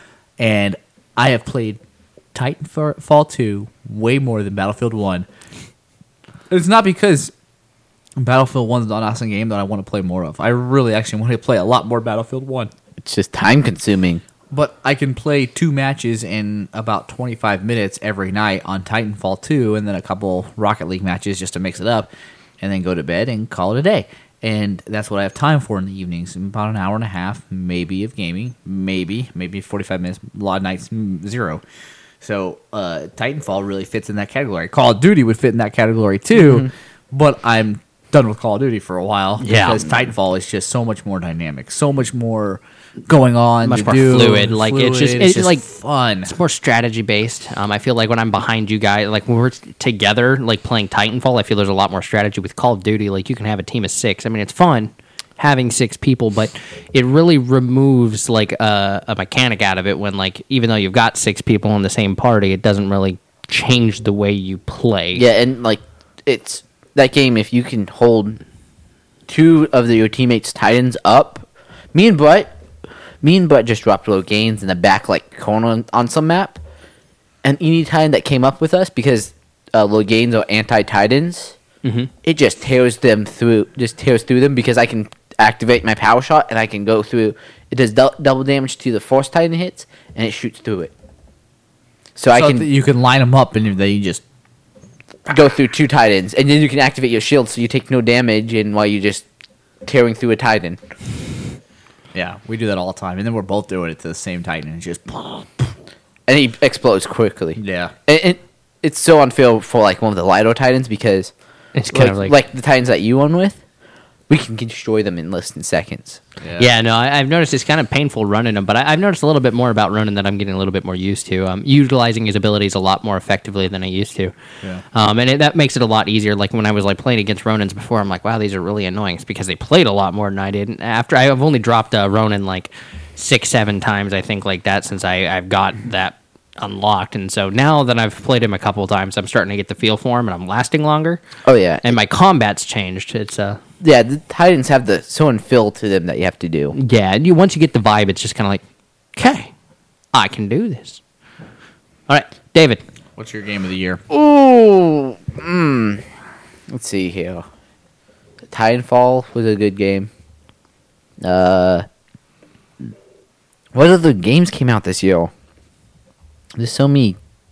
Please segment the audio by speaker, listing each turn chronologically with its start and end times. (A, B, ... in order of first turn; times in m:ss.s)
0:00.4-0:01.8 A
0:02.3-0:05.3 A
0:06.5-0:07.3 A
0:08.2-0:12.7 A
0:13.0-0:14.2 B
0:14.5-0:22.1 A
0:22.6-0:31.6 A
0:32.2-0:46.3 A
0:39.4-0:39.8 C
0:43.6-0:45.6 C
0:46.3-1:05.2 C
1:05.1-1:08.4 B
1:09.3-1:12.5 B
1:13.2-1:16.6 B
1:17.4-1:21.6 B
1:21.8-1:22.1 C
1:22.2-1:30.9 B
1:32.2-1:32.7 B
1:32.3-1:34.2 A
1:35.3-1:39.2 B
1:39.8-1:40.8 B
1:42.1-1:45.7 A
1:46.3-1:51.3 B
1:47.6-1:47.9 A
1:51.8-1:52.4 C
1:51.9-1:53.6 B
1:54.3-1:56.2 B
1:56.4-1:56.7 A
1:56.6-2:04.3 C
2:04.9-2:21.2 C
2:21.5-2:21.9 B
2:21.8-2:23.6 C
2:23.8-2:26.8 B
2:26.8-2:28.6 C
2:29.2-2:29.5 C
2:30.1-2:31.0 C
2:32.1-2:32.8 C
2:33.2-2:34.0 A
2:34.1-2:36.0 B
2:36.7-2:37.4 B
2:38.5-2:40.1 B
2:41.2-2:41.8 B
2:43.7-2:45.3 B
2:46.6-2:47.2 B